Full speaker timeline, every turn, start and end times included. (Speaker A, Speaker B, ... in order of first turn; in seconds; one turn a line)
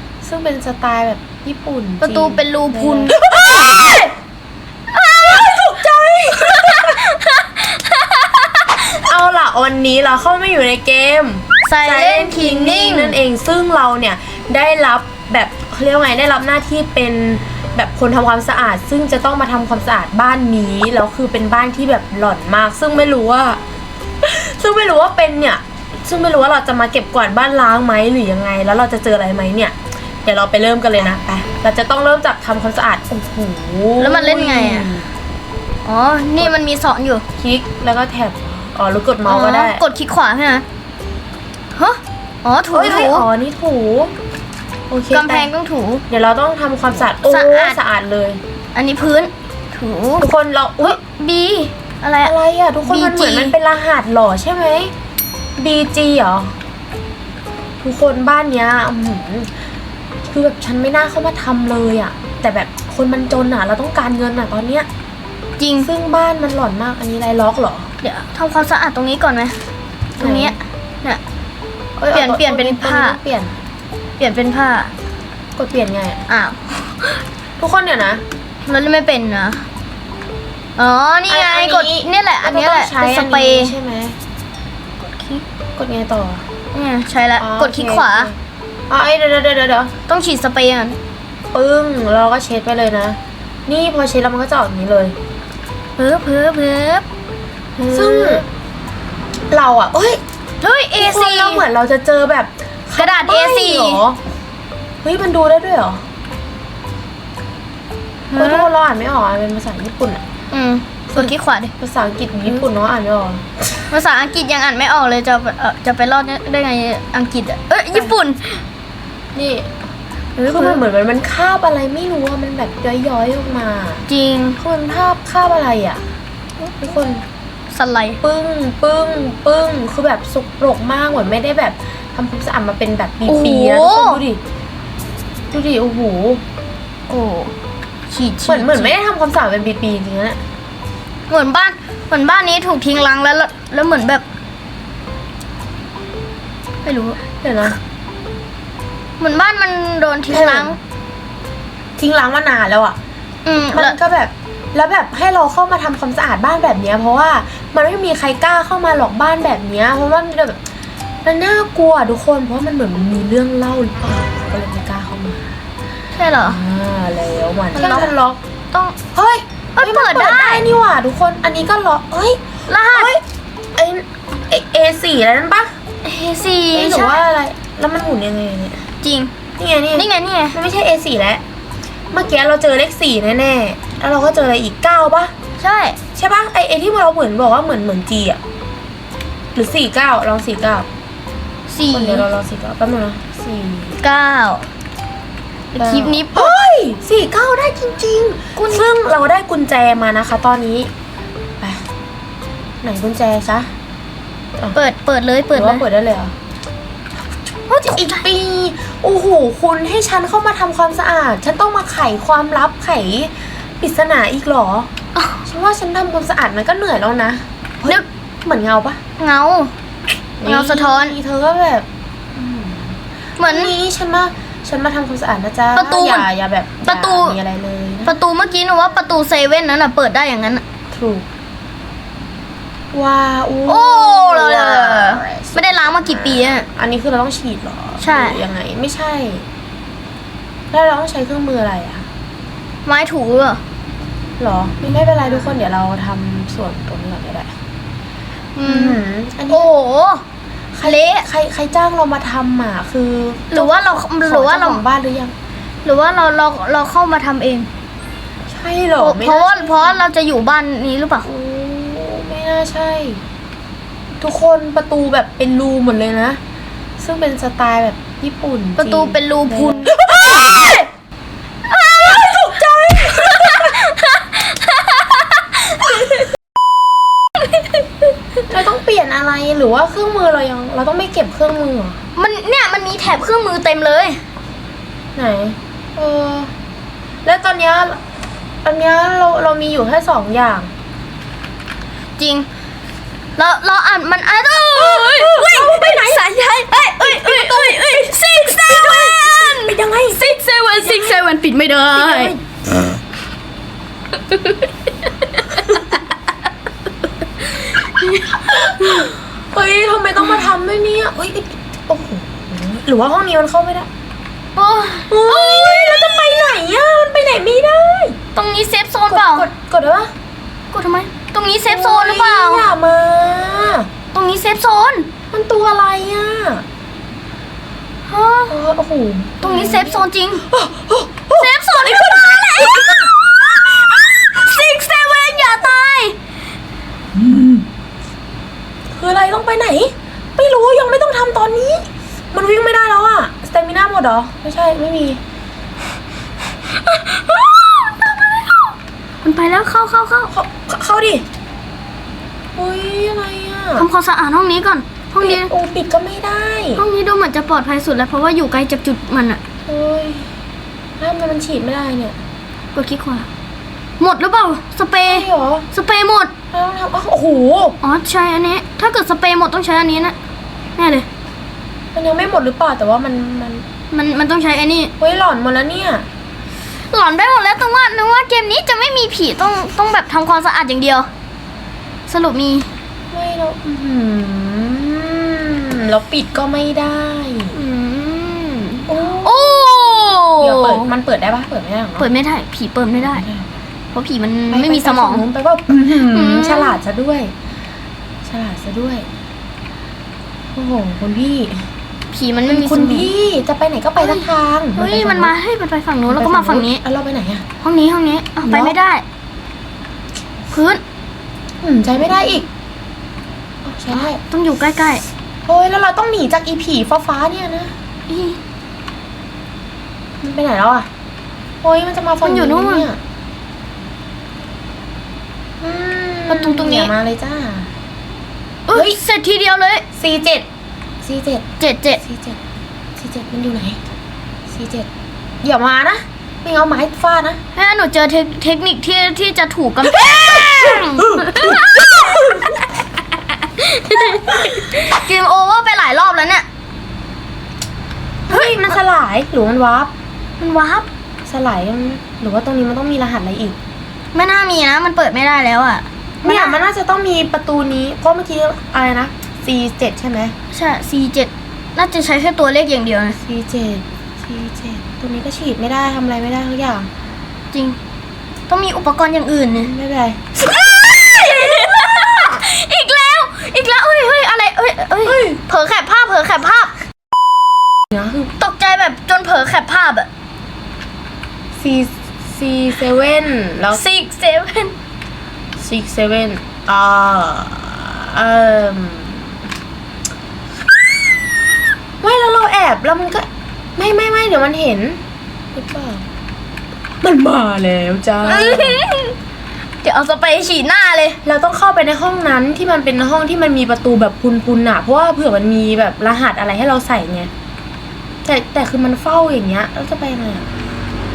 Speaker A: 0.2-3.9
Speaker B: 2.0-4.0
Speaker B: 4.9-5.8
Speaker A: 5.1-7.0
Speaker B: 6.3-9.0
Speaker A: 9.0-23.6
Speaker B: 11.6-13.2
Speaker A: 24.2-35.1
Speaker B: 34.0-34.9
Speaker B: 35.8-37.2
Speaker A: 37.4-39.8
Speaker B: 39.2-40.6
Speaker B: 41.7-43.3
Speaker A: 42.7-44.1
Speaker A: 44.9-45.5
Speaker B: 45.1-46.0
Speaker A: 46.1-48.4
Speaker B: 47.2-47.8
Speaker B: 48.7-50.2
Speaker A: 50.2-51.0
Speaker B: 50.8-53.5
Speaker A: 52.2-54.9
Speaker A: 55.6-56.5
Speaker A: 57.8-59.5
Speaker A: 60.3-64.9
Speaker B: 65.6-65.9
Speaker A: 65.8-67.9
Speaker B: 68.0-69.6
Speaker B: 70.2-71.2
Speaker A: 70.2-70.5
Speaker A: 72.0-73.5
Speaker B: 72.1-73.2
Speaker B: 74.2-74.9
Speaker A: 75.6-76.2
Speaker B: 76.3-77.2
Speaker A: 77.6-78.2
Speaker B: 78.6-79.6
Speaker B: 80.8-83.7
Speaker A: 81.3-84.2
Speaker B: 85.0-85.4
Speaker A: 85.8-86.4
Speaker B: 86.7-88.3
Speaker A: 87.4-88.3
Speaker A: 88.9-89.9
Speaker B: 90.1-91.0
Speaker A: 91.5-95.2
Speaker B: 96.0-97.0
Speaker B: 97.8-98.5
Speaker A: 97.9-98.5
Speaker A: 99.5-100.2
Speaker B: 100.6-101.6
Speaker A: 101.0-104.2
Speaker B: 103.0-104.0
Speaker A: 105.0-106.0
Speaker A: 108.3-110.2
Speaker B: 108.3-108.7
Speaker B: 110.5-111.7
Speaker A: 111.1-113.5
Speaker B: 113.9-118.6
Speaker A: 119.3-119.7
Speaker A: 120.4-124.0
Speaker B: 120.5-120.8
Speaker B: 124.1-124.6
Speaker A: 124.6-126.0
Speaker A: 126.8-127.2
Speaker B: 127.7-128.2
Speaker A: 128.2-134.4
Speaker B: 133.2-134.2
Speaker A: 135.5-136.4
Speaker B: 137.1-137.5
Speaker B: 138.1-138.9
Speaker A: 138.4-140.4
Speaker B: 141.3-144.2
Speaker B: 146.8-147.2
Speaker A: 147.4-147.8
Speaker B: 149.2-150.8
Speaker A: 150.3-150.8
Speaker A: 152.0-152.9
Speaker B: 153.4-154.0
Speaker A: 153.7-160.6
Speaker A: 161.2-165.5
Speaker B: 166.1-166.6
Speaker A: 166.4-168.4
Speaker B: 167.7-168.1
Speaker A: 169.1-173.2
Speaker B: 169.8-170.6
Speaker B: 172.7-173.2
Speaker A: 173.8-175.8
Speaker B: 176.0-177.2
Speaker A: 176.7-178.8
Speaker B: 179.0-179.3
Speaker A: 179.6-181.4
Speaker B: 179.9-180.6
Speaker A: 182.1-185.3
Speaker B: 185.6-186.0
Speaker A: 186.2-188.4
Speaker A: 189.6-190.9
Speaker B: 191.7-192.2
Speaker A: 191.9-194.0
Speaker B: 194.0-194.7
Speaker B: 195.7-196.6
Speaker A: 195.7-200.9
Speaker B: 198.6-198.9
Speaker A: 202.8-203.7
Speaker B: 204.7-205.8
Speaker A: 205.5-206.3
Speaker B: 207.7-208.2
Speaker A: 207.9-214.9
Speaker A: 215.4-219.0
Speaker B: 219.2-219.7
Speaker A: 220.4-228.2
Speaker B: 220.4-221.2
Speaker B: 223.4-223.7
Speaker B: 225.7-226.3
Speaker B: 226.8-227.4
Speaker B: 228.1-230.6
Speaker A: 230.9-231.2
Speaker A: 232.9-239.4
Speaker B: 233.7-236.7
Speaker B: 238.0-238.4
Speaker A: 240.7-242.1
Speaker B: 242.8-243.6
Speaker A: 244.4-247.5
Speaker B: 248.5-250.2
Speaker A: 248.6-249.7
Speaker A: 250.7-255.3
Speaker B: 250.8-251.3
Speaker B: 253.5-254.8
Speaker B: 255.8-257.7
Speaker A: 258.5-260.0
Speaker B: 259.0-261.2
Speaker A: 261.2-263.2
Speaker A: 264.2-266.4
Speaker A: 267.0-270.0
Speaker B: 268.8-270.9
Speaker B: 271.7-276.2
Speaker A: 272.1-273.7
Speaker B: 277.4-277.9
Speaker A: 278.5-282.0
Speaker B: 282.1-284.2
Speaker A: 285.1-286.5
Speaker A: 287.2-288.0
Speaker A: 288.6-290.7
Speaker B: 292.2-292.5
Speaker B: 293.4-302.3
Speaker A: 294.7-296.3
Speaker A: 297.0-300.3
Speaker A: 300.9-301.1
Speaker A: 301.9-302.4
Speaker B: 304.3-306.0
Speaker B: 307.4-309.1
Speaker A: 308.6-313.9
Speaker B: 314.5-316.6
Speaker A: 315.1-318.2
Speaker B: 318.3-319.5
Speaker A: 319.1-320.1
Speaker B: 320.7-322.7
Speaker A: 321.6-323.9
Speaker B: 324.1-325.1
Speaker A: 325.3-326.6
Speaker B: 328.1-328.6
Speaker A: 328.5-333.1
Speaker B: 329.4-330.4
Speaker B: 331.3-336.2
Speaker A: 337.1-337.6
Speaker A: 339.0-345.2
Speaker B: 346.7-350.3
Speaker A: 350.3-351.2
Speaker A: 352.6-353.9
Speaker B: 353.8-355.5
Speaker A: 355.2-356.8
Speaker B: 356.8-359.4
Speaker A: 359.7-360.3
Speaker A: 361.0-362.1
Speaker B: 362.7-363.3
Speaker B: 364.0-366.3
Speaker A: 365.1-365.6
Speaker A: 366.5-367.8
Speaker B: 367.8-370.1
Speaker B: 370.8-371.1
Speaker A: 371.9-373.6
Speaker B: 373.9-374.9
Speaker A: 375.0-376.0
Speaker B: 376.9-381.1
Speaker B: 382.1-382.7
Speaker A: 383.1-389.4
Speaker B: 388.9-390.9
Speaker A: 390.4-392.1
Speaker B: 392.0-393.2
Speaker A: 393.1-393.4
Speaker B: 393.9-395.2
Speaker A: 394.5-397.3
Speaker B: 396.1-396.8
Speaker A: 398.2-399.1
Speaker A: 400.6-401.6
Speaker B: 402.1-403.1
Speaker A: 402.5-405.3
Speaker B: 404.0-406.8
Speaker A: 406.1-407.4
Speaker B: 407.6-409.0
Speaker A: 408.4-408.8
Speaker B: 410.5-410.8
Speaker A: 411.6-412.5
Speaker A: 413.6-414.2
Speaker B: 413.9-415.0
Speaker A: 415.4-417.7
Speaker B: 418.1-418.4
Speaker A: 420.2-420.9
Speaker A: 421.6-423.0
Speaker B: 422.2-422.9
Speaker A: 425.6-427.7
Speaker B: 426.3-426.9
Speaker B: 428.7-429.9
Speaker A: 428.7-429.0
Speaker A: 429.9-430.4
Speaker A: 431.0-431.4
Speaker B: 431.6-432.0
Speaker A: 432.0-432.4
Speaker A: 433.0-433.8
Speaker A: 434.5-434.9
Speaker A: 435.4-437.4
Speaker B: 437.5-442.3
Speaker A: 440.7-442.6
Speaker B: 443.3-446.4
Speaker A: 448.3-449.9
Speaker B: 448.3-448.6
Speaker B: 450.4-450.9
Speaker A: 451.3-453.6
Speaker B: 454.1-456.6
Speaker A: 456.2-460.3
Speaker B: 460.5-463.2
Speaker A: 463.2-466.9
Speaker B: 467.5-467.8
Speaker B: 468.5-469.7
Speaker A: 469.6-470.2
Speaker B: 470.4-476.7
Speaker A: 475.0-475.4
Speaker A: 477.9-478.3
Speaker B: 478.4-480.1
Speaker A: 481.6-483.8
Speaker B: 483.7-484.7
Speaker A: 485.6-489.3
Speaker A: 492.0-495.0
Speaker A: 495.5-496.0
Speaker A: 497.0-498.8
Speaker B: 498.2-499.2
Speaker B: 499.8-501.2
Speaker A: 501.2-507.3
Speaker A: 508.2-510.4